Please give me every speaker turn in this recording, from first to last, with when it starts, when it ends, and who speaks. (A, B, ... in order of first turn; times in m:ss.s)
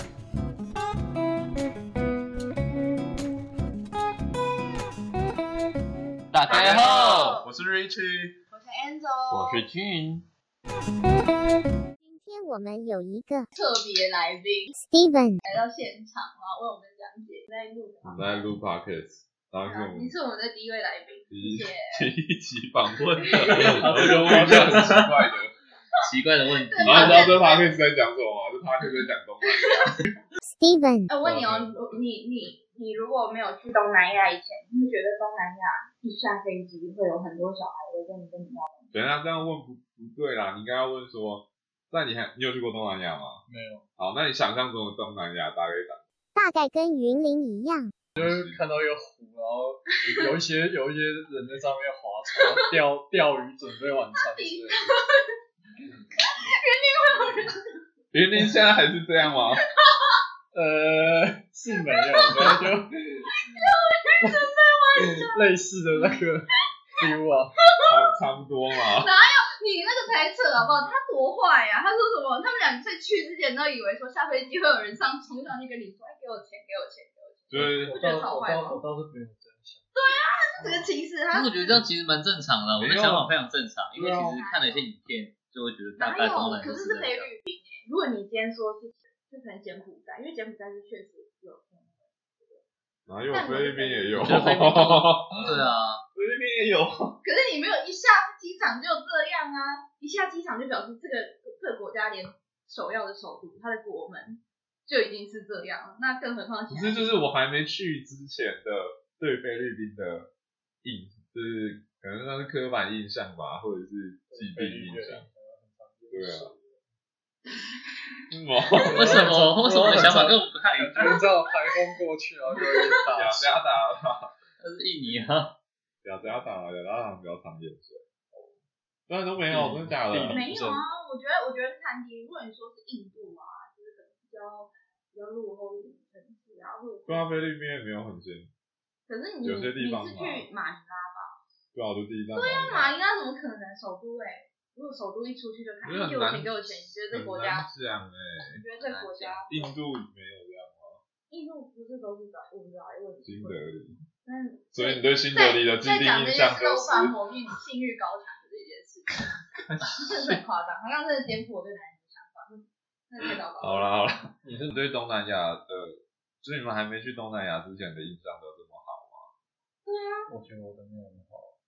0:06.3-0:07.4 A
0:06.5-0:08.4 B
0:06.5-0:07.5 C
0:08.5-0:09.7 C
0:09.3-0:10.3 A
0:12.0-0:13.5 D
0:13.5-0:14.8 C
0:14.7-0:15.4 D
0:15.4-0:18.5 C
0:18.0-0:20.1 B
0:19.6-0:22.1 C
0:21.3-0:25.5 B
0:23.2-0:23.6 C
0:23.2-0:25.1 A
0:24.2-0:24.8 E
0:26.0-0:27.4 A
0:26.6-0:27.8 C
0:26.8-0:30.0 B
0:29.5-0:29.9 C
0:30.5-0:31.1 D
0:31.1-0:38.9 C
0:31.2-0:31.8 E
0:38.9-0:43.4 B
0:43.5-0:43.9 E
0:44.0-0:46.0 B
0:46.4-0:47.9 D
0:48.2-0:48.6 B
0:48.2-0:55.0 E
0:50.1-0:50.4 C
0:54.2-0:55.3 C
0:56.2-0:57.8 C
0:58.1-0:59.6 B
0:59.4-1:00.2 C
1:00.5-1:03.3 E
1:01.7-1:02.6 C
1:03.3-1:06.2 C
1:04.2-1:07.6 E
1:07.7-1:08.1 C
1:07.9-1:09.1 B
1:08.8-1:18.8 C
1:17.5-1:18.0 B
1:17.5-1:20.9 E
1:19.9-1:21.8 C
1:21.3-1:27.3 A
1:22.8-1:23.3 B
1:24.0-1:24.4 B
1:24.0-1:24.8 C
1:26.0-1:32.6 C
1:33.1-1:35.6 B
1:33.3-1:34.6 C
1:34.2-1:36.0 A
1:36.1-1:37.2 B
1:37.2-1:47.2 C
1:46.7-1:50.3 B
1:50.8-1:55.3 B
1:54.3-1:56.8 E
1:56.1-1:56.5 B
1:58.3-1:59.3 B
1:58.8-2:03.6 E
1:58.9-2:01.2 A
2:02.6-2:03.0 C
2:03.1-2:04.3 B
2:04.6-2:05.6 A
2:06.0-2:08.5 B
2:09.1-2:10.4 B
2:09.5-2:11.0 E
2:10.2-2:17.3 C
2:17.1-2:18.5 B
2:19.1-2:21.4 C
2:19.4-2:20.5 B
2:21.7-2:23.0 B
2:22.3-2:27.7 C
2:25.8-2:28.6 B
2:28.4-2:29.7 C
2:28.8-2:29.4 A
2:29.5-2:31.0 B
2:31.3-2:33.6 C
2:33.2-2:34.0 B
2:34.2-2:39.3 C
2:34.7-2:37.2 B
2:39.2-2:40.4 B
2:39.9-2:43.9 C
2:43.2-2:49.3 B
2:44.4-2:44.8 E
2:49.8-2:50.3 C
2:50.3-2:51.6 E